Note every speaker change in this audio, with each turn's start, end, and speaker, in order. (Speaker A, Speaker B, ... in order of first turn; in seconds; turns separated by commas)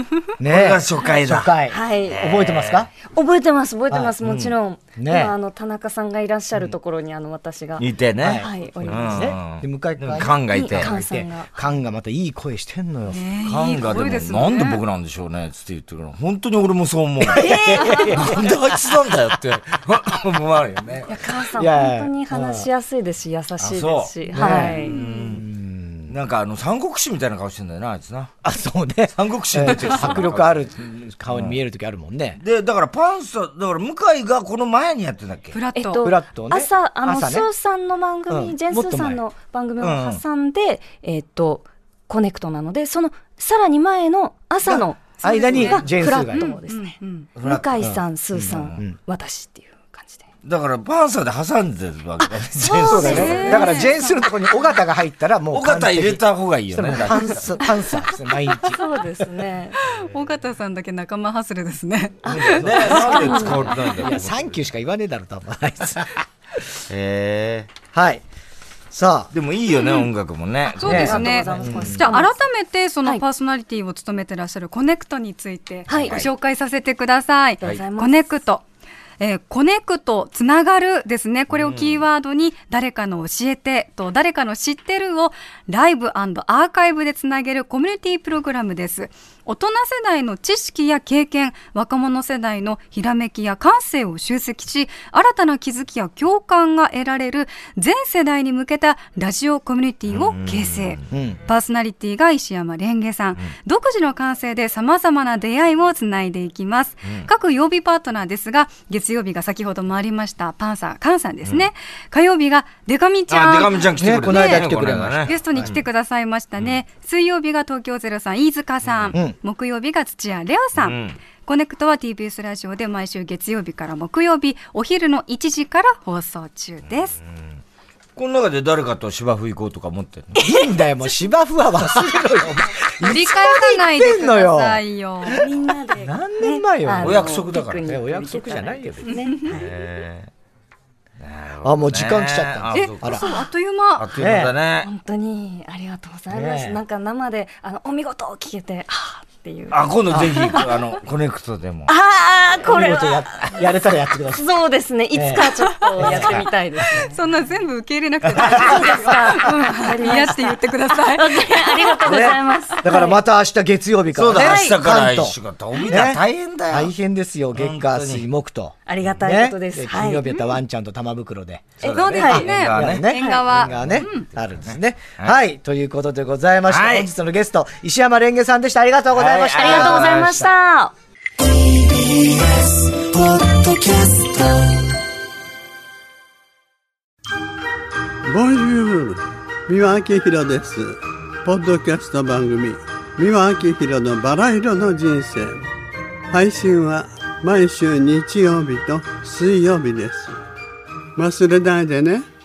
Speaker A: 0.4-2.9, Speaker B: 0.4-1.5, Speaker C: 1.7-2.5, Speaker B: 2.1-2.9, Speaker C: 3.0-7.8, Speaker B: 4.2-4.5, Speaker A: 5.0-5.3, Speaker B: 7.8-10.9, Speaker A: 8.2-13.2, Speaker C: 8.4-9.4, Speaker C: 10.2-11.7, Speaker D: 13.1-14.8, Speaker B: 13.4-21.1, Speaker A: 17.2-19.4, Speaker C: 17.3-18.4, Speaker C: 21.1-25.0, Speaker A: 21.4-22.7, Speaker B: 23.6-25.4, Speaker A: 24.3-26.1, Speaker B: 26.1-28.3, Speaker A: 28.4-32.4, Speaker B: 29.1-30.7, Speaker B: 31.3-31.6, Speaker B: 32.4-35.6, Speaker D: 35.5-36.0, Speaker C: 35.7-50.2, Speaker A: 36.0-37.5, Speaker A: 38.3-39.2, Speaker B: 39.8-40.2, Speaker A: 44.7-46.5, Speaker D: 45.6-47.3, Speaker B: 47.4-47.8, Speaker A: 47.8-48.9, Speaker B: 50.4-53.6, Speaker C: 52.2-54.3, Speaker A: 52.7-58.9, Speaker D: 53.0-54.0, Speaker B: 55.5-57.7, Speaker C: 58.6-59.8, Speaker D: 59.8-63.6, Speaker C: 62.2-63.6, Speaker B: 62.2-64.5, Speaker A: 62.6-66.6, Speaker B: 66.9-67.7, Speaker A: 67.9-68.2, Speaker A: 68.9-69.3, Speaker B: 69.3-71.5, Speaker D: 70.7-78.6, Speaker A: 70.8-72.1, Speaker C: 70.8-72.3, Speaker C: 75.9-76.2, Speaker B: 75.9-76.3, Speaker C: 77.6-78.4, Speaker D: 79.2-127.2, Speaker B: 81.5-82.0, Speaker B: 100.1-101.0, Speaker A: 101.1-101.4, Speaker B: 113.3-115.8, Speaker A: 114.0-115.7, Speaker B: 118.8-119.2, Speaker B: 120.8-121.2, Speaker B: 128.2-130.3, Speaker A: 130.3-135.5, Speaker D: 133.0-135.4, Speaker C: 135.2-139.7, Speaker A: 136.0-139.2, Speaker B: 137.0-137.8, Speaker B: 139.4-140.3, Speaker B: 141.2-143.2, Speaker A: 141.6-143.2, Speaker D: 142.7-144.1, Speaker C: 143.2-143.5, Speaker B: 143.9-144.9, Speaker A: 144.2-144.5, Speaker C: 144.8-150.7, Speaker A: 146.3-146.8, Speaker B: 149.7-151.9, Speaker A: 150.1-150.5, Speaker C: 151.9-153.2, Speaker A: 152.6-154.4, Speaker C: 154.3-157.2, Speaker A: 155.1-156.4, Speaker D: 155.7-156.2, Speaker D: 156.9-162.3, Speaker B: 158.3-158.8, Speaker C: 158.4-163.2, Speaker A: 162.0-180.5, Speaker B: 164.1-166.9, Speaker C: 164.3-164.8, Speaker B: 167.5-168.2, Speaker C: 168.9-170.3, Speaker B: 171.8-173.1, Speaker C: 171.8-173.5, Speaker D: 171.8-174.3, Speaker B: 173.7-173.9, Speaker B: 174.7-175.3, Speaker B: 176.7-177.1, Speaker B: 179.1-180.5, Speaker C: 179.5-180.9, Speaker E: 182.7-184.4, Speaker E: 188.2-195.7, Speaker E: 196.3-200.4, Speaker E: 201.2-202.2